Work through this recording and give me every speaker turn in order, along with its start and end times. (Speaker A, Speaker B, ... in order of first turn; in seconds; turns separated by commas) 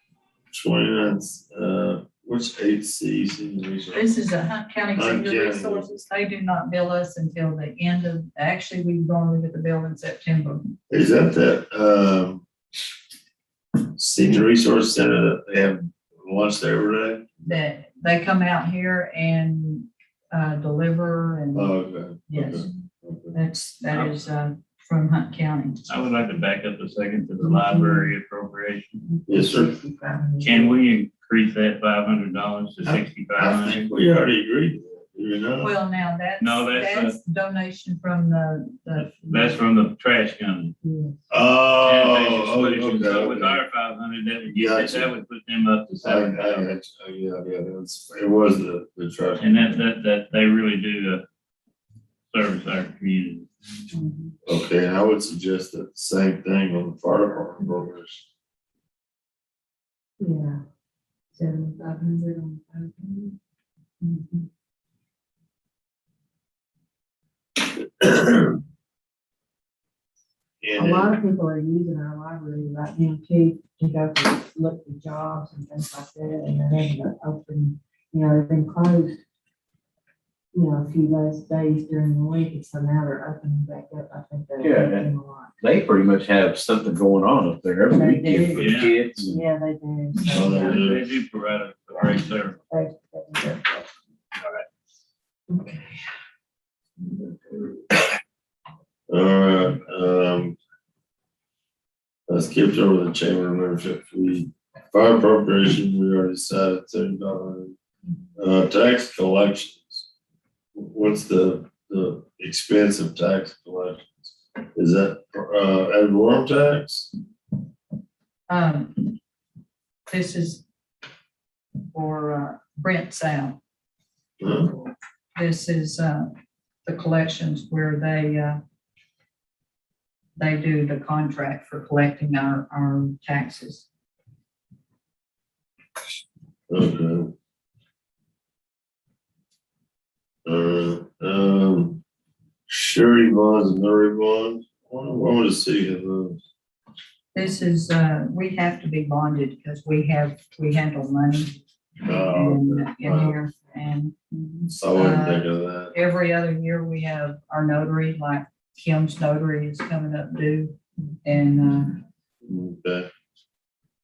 Speaker A: 0.5-4.1, Speaker B: 3.9-10.7, Speaker A: 5.0-5.9, Speaker A: 10.9-12.4, Speaker A: 14.0-17.4, Speaker B: 17.4-21.7, Speaker A: 21.5-23.4, Speaker B: 22.3-22.7, Speaker B: 23.3-25.8, Speaker C: 23.9-24.2, Speaker C: 25.9-29.0, Speaker D: 29.2-30.8, Speaker A: 29.3-29.7, Speaker C: 30.4-33.9, Speaker A: 32.9-35.7, Speaker B: 35.6-39.6, Speaker C: 36.4-37.2, Speaker C: 38.9-40.8, Speaker D: 40.8-41.2, Speaker A: 41.3-43.6, Speaker C: 41.8-46.7, Speaker A: 44.5-45.1, Speaker A: 46.0-49.6, Speaker C: 49.4-51.2, Speaker C: 52.3-53.5, Speaker B: 53.9-54.3, Speaker A: 54.5-58.2, Speaker D: 60.2-60.6, Speaker D: 61.3-63.4, Speaker B: 64.0-64.5, Speaker A: 67.8-68.6, Speaker A: 70.6-71.2, Speaker D: 70.8-79.2, Speaker D: 80.5-85.6, Speaker E: 84.6-89.4, Speaker D: 87.9-88.7, Speaker C: 88.6-89.0, Speaker D: 89.3-90.8, Speaker A: 90.3-91.0, Speaker C: 90.5-92.6, Speaker D: 92.7-93.9, Speaker D: 95.5-96.0, Speaker A: 99.1-100.6, Speaker A: 102.3-107.8, Speaker A: 108.4-110.1, Speaker A: 110.8-117.1, Speaker B: 118.5-119.2, Speaker B: 120.1-120.6, Speaker B: 121.9-123.6, Speaker A: 124.4-124.8, Speaker B: 125.4-126.3, Speaker B: 126.9-128.6, Speaker B: 130.4-133.9, Speaker A: 136.7-137.3, Speaker A: 140.4-142.0, Speaker A: 142.7-146.4, Speaker B: 147.3-151.5, Speaker A: 152.0-153.3, Speaker B: 152.1-162.0, Speaker A: 154.7-155.9, Speaker A: 162.4-163.1